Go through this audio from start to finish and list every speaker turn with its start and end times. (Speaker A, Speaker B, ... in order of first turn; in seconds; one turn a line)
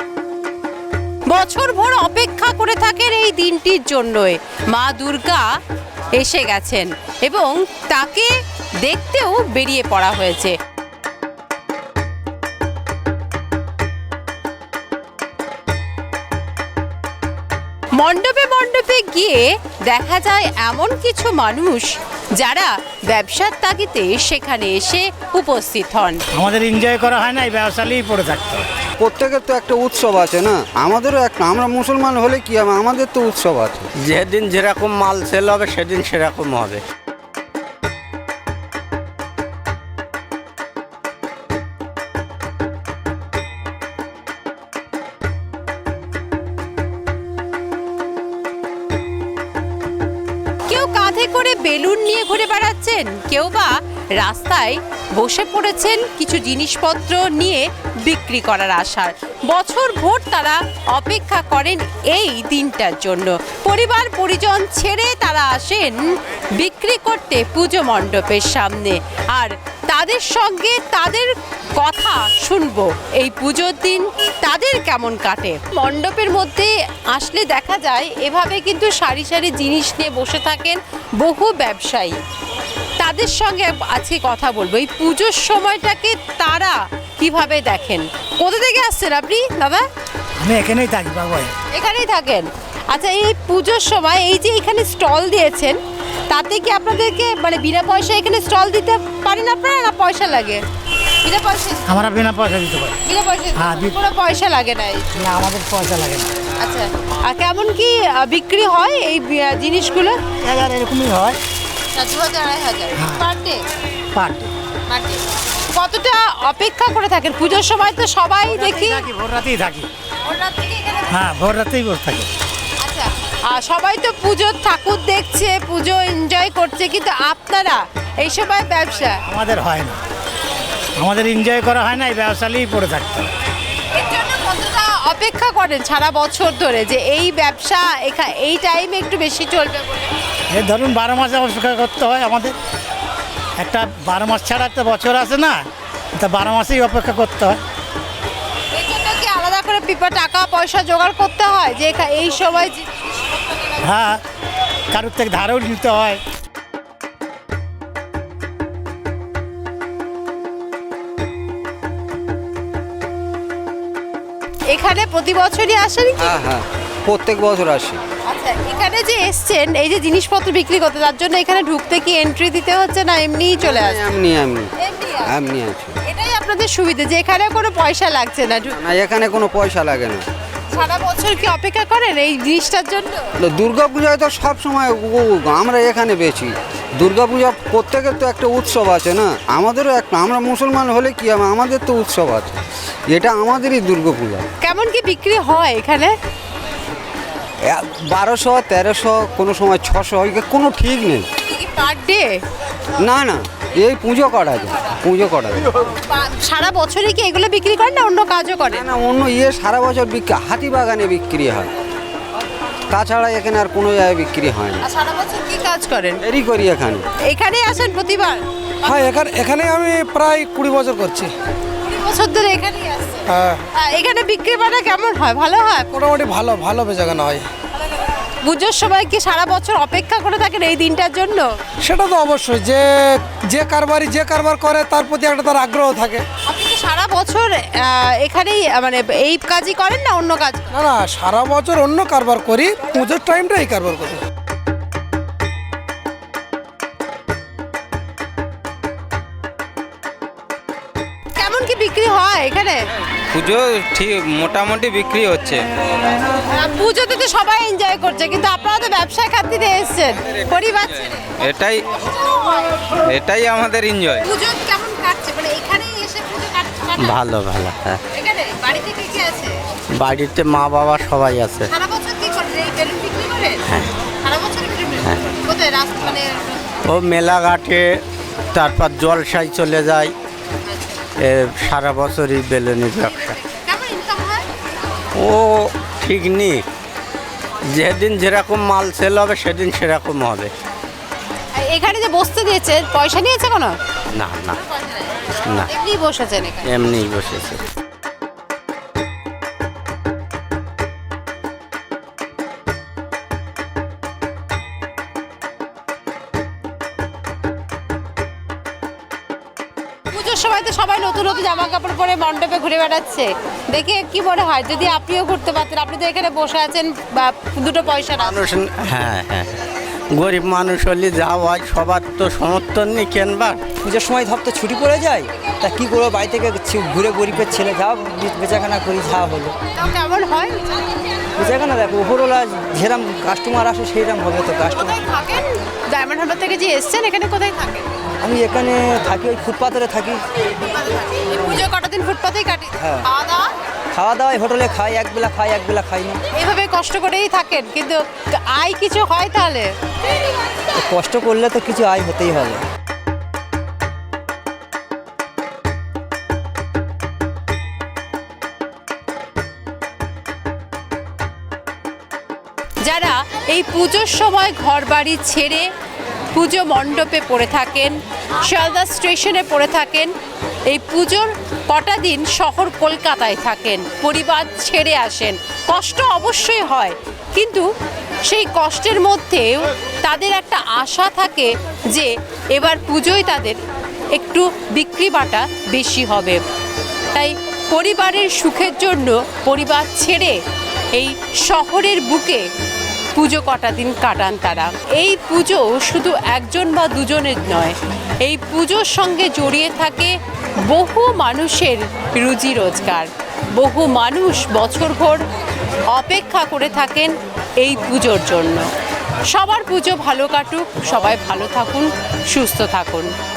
Speaker A: 1.3-5.5
Speaker A: 6.1-10.6
Speaker A: 18.0-26.2
Speaker B: 26.3-28.7
Speaker C: 29.0-33.9
Speaker D: 34.0-36.8
Speaker A: 50.7-82.2
Speaker A: 83.0-89.8
Speaker B: 90.4-91.5
Speaker A: 91.7-100.6
Speaker A: 101.2-102.0
Speaker B: 101.9-103.0
Speaker A: 103.0-105.1
Speaker B: 103.6-104.0
Speaker B: 105.2-106.3
Speaker A: 106.6-110.2
Speaker B: 110.3-111.4
Speaker A: 111.9-113.6
Speaker B: 113.0-113.2
Speaker B: 114.2-114.5
Speaker A: 114.9-115.2
Speaker A: 115.7-119.1
Speaker B: 118.5-119.9
Speaker A: 120.2-121.2
Speaker B: 121.1-122.3
Speaker A: 122.8-129.2
Speaker B: 129.2-130.0
Speaker B: 131.0-133.3
Speaker A: 133.9-140.1
Speaker B: 140.5-142.6
Speaker B: 143.6-145.6
Speaker B: 146.2-147.6
Speaker A: 148.7-153.0
Speaker B: 153.8-154.2
Speaker B: 154.9-156.2
Speaker A: 164.7-166.4
Speaker C: 166.2-168.0
Speaker A: 168.3-174.1
Speaker C: 173.6-174.7
Speaker A: 174.8-175.3
Speaker C: 175.2-176.0
Speaker A: 176.1-178.8
Speaker C: 178.7-180.2
Speaker A: 180.7-183.3
Speaker C: 183.4-194.5
Speaker A: 194.6-196.1
Speaker C: 197.7-201.3
Speaker A: 201.4-202.4
Speaker C: 203.0-205.7
Speaker A: 206.1-208.9
Speaker C: 208.7-211.7
Speaker C: 212.9-214.8
Speaker A: 214.8-216.2
Speaker C: 216.2-217.1
Speaker A: 217.3-218.4
Speaker E: 218.8-221.3
Speaker A: 221.8-225.9
Speaker E: 223.3-223.6
Speaker E: 225.9-227.5
Speaker A: 228.4-231.5
Speaker E: 231.8-236.2
Speaker A: 236.4-240.7
Speaker E: 240.7-244.2
Speaker A: 251.4-252.8
Speaker F: 253.3-255.6
Speaker C: 255.2-255.4
Speaker A: 256.4-261.3
Speaker F: 261.4-261.8
Speaker F: 262.9-264.2
Speaker A: 264.2-267.2
Speaker D: 267.0-268.0
Speaker A: 268.1-269.6
Speaker D: 270.0-271.7
Speaker A: 271.7-273.6
Speaker A: 274.2-276.6
Speaker D: 276.9-277.9
Speaker D: 278.5-280.1
Speaker A: 280.7-281.0
Speaker D: 281.2-283.4
Speaker A: 283.4-284.5
Speaker D: 285.2-286.6
Speaker D: 287.7-290.5
Speaker A: 291.5-293.8
Speaker D: 294.1-294.6
Speaker D: 295.4-295.7
Speaker A: 295.7-296.7
Speaker D: 296.6-297.6
Speaker A: 310.1-318.4
Speaker D: 318.2-319.5
Speaker D: 320.1-323.6
Speaker G: 323.8-329.6
Speaker A: 329.8-330.8
Speaker G: 331.4-335.0
Speaker A: 334.8-337.9
Speaker G: 338.2-340.2
Speaker A: 340.7-343.5
Speaker G: 342.8-343.1
Speaker G: 343.9-346.2
Speaker A: 346.3-349.7
Speaker G: 350.7-352.6
Speaker A: 362.8-365.7
Speaker A: 366.3-370.1
Speaker A: 370.7-377.7
Speaker A: 378.3-383.6
Speaker A: 384.1-386.4
Speaker A: 387.1-390.4
Speaker A: 390.9-392.5
Speaker A: 393.1-405.2
Speaker A: 405.9-408.7
Speaker A: 409.3-413.1